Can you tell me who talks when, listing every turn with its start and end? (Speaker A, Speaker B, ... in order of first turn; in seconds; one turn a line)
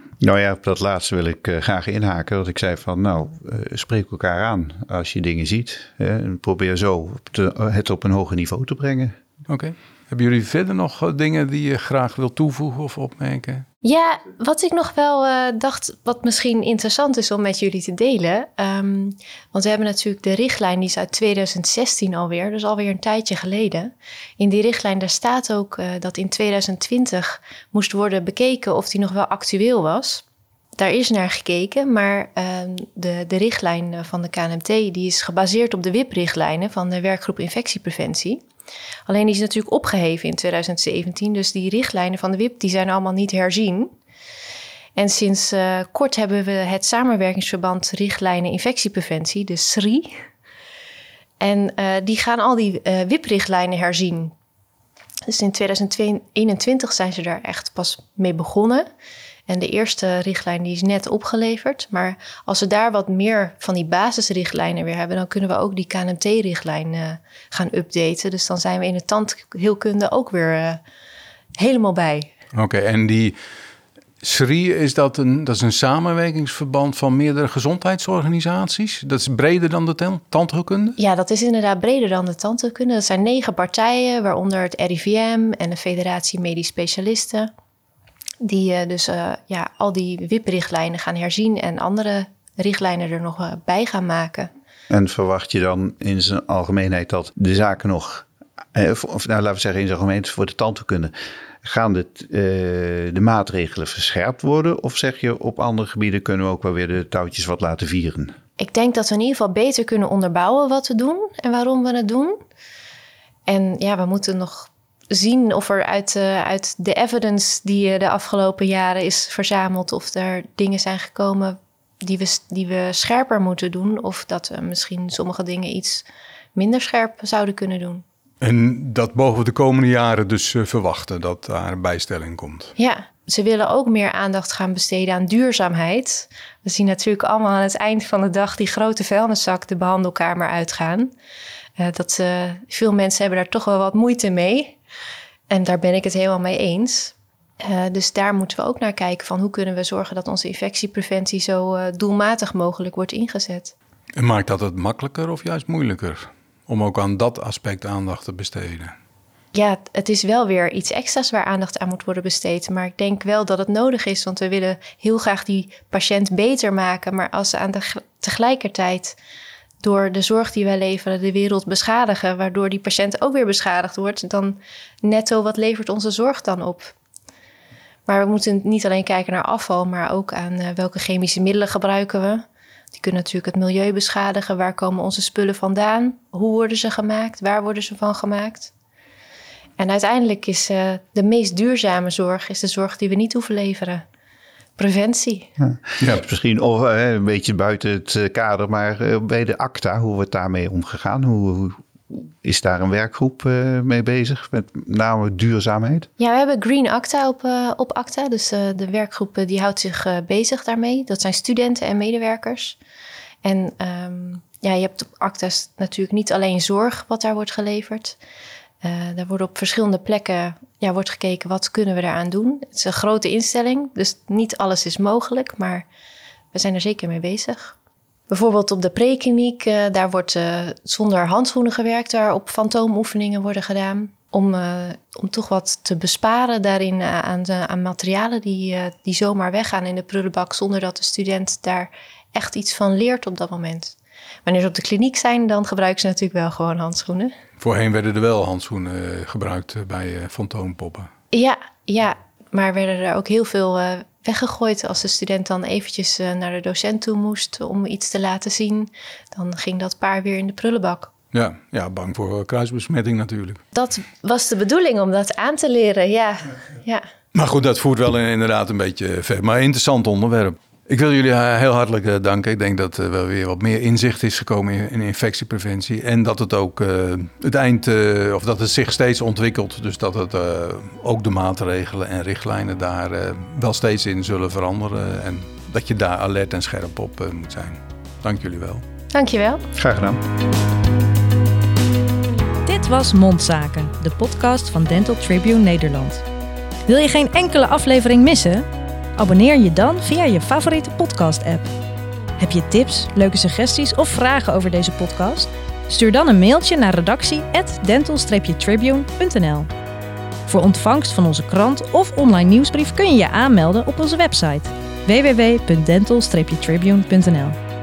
Speaker A: 0.2-9.1
Speaker B: 9.5-13.7
Speaker C: 13.8-30.2
Speaker C: 30.8-38.4
Speaker C: 39.1-43.9
Speaker C: 45.0-50.2
Speaker C: 51.4-54.3
Speaker C: 55.3-58.9
Speaker C: 59.5-70.8
Speaker C: 71.6-72.3
Speaker B: 72.5-73.4
Speaker B: 74.2-81.0
Speaker C: 81.0-87.5
Speaker C: 88.4-94.5
Speaker A: 94.9-101.1
Speaker A: 101.6-108.3
Speaker C: 108.6-112.4
Speaker C: 113.5-128.0
Speaker B: 128.4-132.7
Speaker C: 132.8-141.1
Speaker C: 141.8-144.8
Speaker C: 145.5-153.7
Speaker B: 154.2-158.9
Speaker C: 159.5-169.2
Speaker C: 169.8-176.9
Speaker C: 178.1-188.7
Speaker C: 189.8-194.0
Speaker C: 194.8-195.5
Speaker A: 195.6-206.1
Speaker C: 206.2-212.8
Speaker C: 213.4-218.2
Speaker C: 218.8-225.8
Speaker C: 226.5-227.8
Speaker C: 228.3-247.3
Speaker B: 247.6-251.1
Speaker C: 251.3-261.1
Speaker B: 261.3-263.6
Speaker C: 263.7-267.0
Speaker B: 267.3-288.8
Speaker C: 289.1-289.6
Speaker A: 289.7-290.2
Speaker D: 292.6-296.2
Speaker D: 296.9-298.6
Speaker D: 299.2-301.7
Speaker D: 302.4-309.7
Speaker D: 310.5-317.6